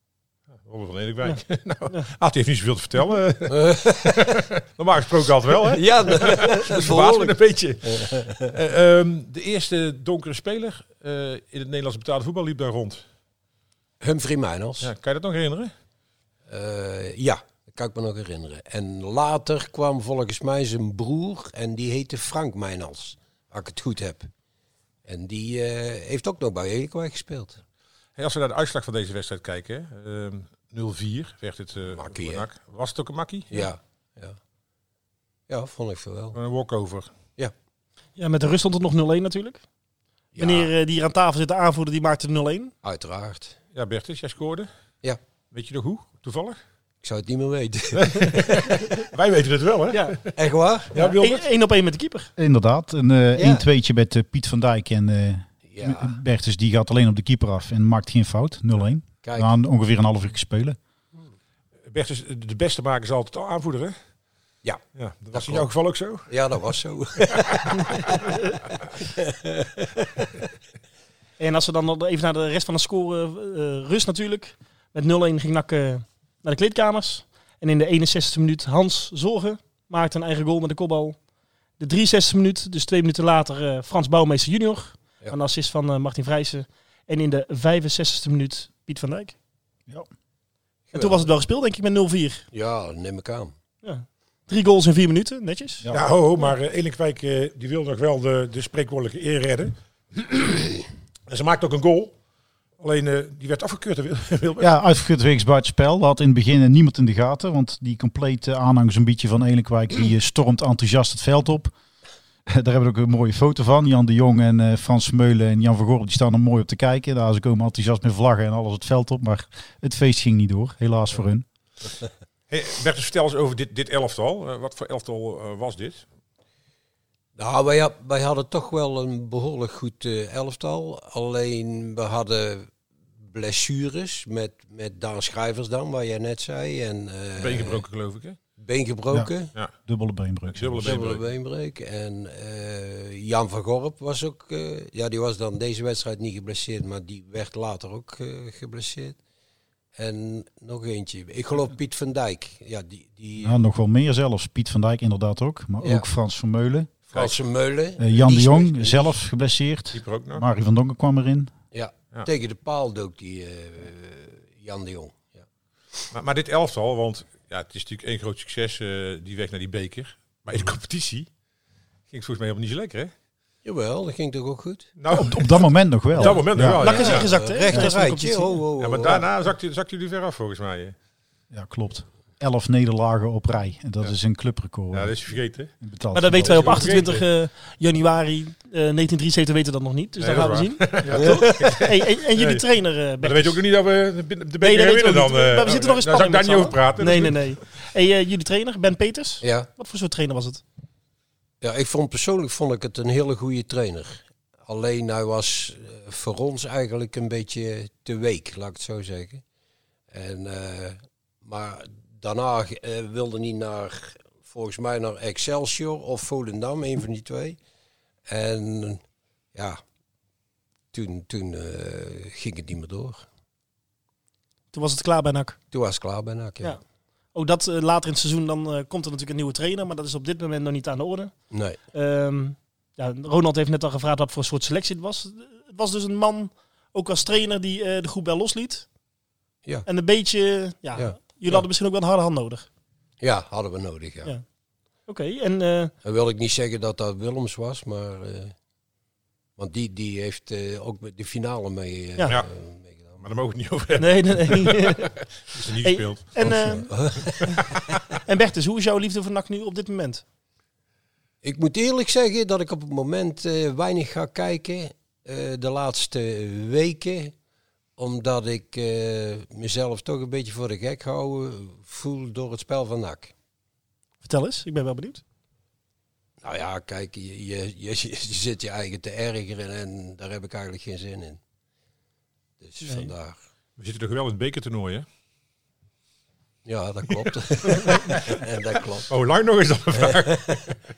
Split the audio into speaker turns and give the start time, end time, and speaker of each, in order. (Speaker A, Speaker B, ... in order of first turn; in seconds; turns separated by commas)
Speaker A: 0.6-13.0, Speaker B: 3.5-4.1, Speaker B: 5.7-7.4, Speaker B: 7.9-8.3, Speaker B: 14.0-14.9, Speaker A: 14.8-15.7, Speaker B: 16.5-24.3, Speaker B: 25.0-27.6, Speaker A: 28.2-33.6, Speaker B: 31.9-32.5, Speaker B: 33.5-34.4, Speaker B: 35.5-36.4, Speaker A: 36.3-37.1, Speaker C: 38.2-39.6, Speaker B: 40.3-40.7, Speaker C: 40.4-42.7, Speaker B: 42.8-43.6, Speaker A: 43.7-44.7, Speaker A: 45.5-46.6, Speaker B: 47.0-48.8, Speaker A: 48.0-50.3, Speaker B: 50.3-51.1, Speaker A: 50.9-51.4, Speaker C: 51.0-52.3, Speaker D: 52.4-60.8, Speaker B: 53.4-53.6, Speaker B: 55.7-56.1, Speaker B: 59.2-59.5, Speaker A: 61.9-64.0, Speaker B: 64.6-65.7, Speaker A: 64.9-66.3, Speaker B: 66.3-68.4, Speaker B: 69.0-69.9, Speaker C: 71.4-81.2, Speaker C: 81.8-89.3, Speaker B: 90.9-91.2, Speaker C: 90.9-92.5, Speaker B: 92.5-93.5, Speaker C: 93.8-95.8, Speaker A: 95.9-102.1, Speaker A: 102.8-104.7, Speaker D: 104.6-111.7, Speaker D: 112.5-121.4, Speaker A: 122.5-126.0, Speaker B: 127.4-132.7, Speaker B: 133.2-137.8, Speaker A: 137.4-138.4, Speaker B: 138.6-139.5, Speaker D: 139.8-141.0, Speaker A: 140.5-141.2, Speaker B: 140.8-149.2, Speaker B: 149.9-153.6, Speaker D: 153.4-156.9, Speaker B: 157.1-159.2, Speaker D: 158.0-161.5, Speaker A: 159.9-160.4, Speaker B: 161.7-165.4, Speaker A: 166.1-171.3, Speaker A: 172.1-173.1, Speaker B: 173.6-174.9, Speaker A: 175.0-175.5, Speaker D: 175.1-177.1, Speaker A: 176.1-177.3, Speaker B: 176.2-179.3, Speaker C: 176.7-178.6, Speaker A: 178.8-180.9, Speaker D: 181.5-185.2, Speaker A: 184.9-185.7, Speaker D: 185.8-186.9, Speaker C: 186.1-193.6, Speaker A: 186.4-187.2, Speaker A: 190.2-192.6, Speaker A: 193.2-197.4, Speaker C: 194.6-200.6, Speaker B: 199.4-199.7, Speaker B: 201.6-209.4, Speaker B: 210.1-217.6, Speaker B: 218.3-219.0, Speaker B: 219.5-219.8, Speaker B: 220.9-223.2, Speaker C: 224.7-225.6, Speaker B: 225.7-226.8, Speaker C: 227.3-231.3, Speaker B: 231.5-231.8, Speaker C: 231.9-238.9, Speaker C: 239.8-242.7, Speaker B: 240.9-241.6, Speaker B: 243.2-244.3, Speaker C: 245.1-245.9, Speaker B: 246.0-248.5, Speaker B: 249.6-253.2, Speaker A: 253.2-256.5, Speaker C: 254.0-255.1, Speaker C: 255.8-257.7, Speaker B: 256.4-257.6, Speaker C: 258.2-260.2, Speaker B: 261.4-267.3, Speaker B: 268.0-273.3, Speaker C: 274.2-275.2, Speaker B: 276.4-281.4, Speaker B: 282.6-283.4, Speaker C: 282.8-283.1, Speaker A: 283.8-285.1, Speaker B: 286.6-289.1, Speaker A: 287.1-288.4, Speaker A: 289.1-290.4, Speaker B: 290.0-290.7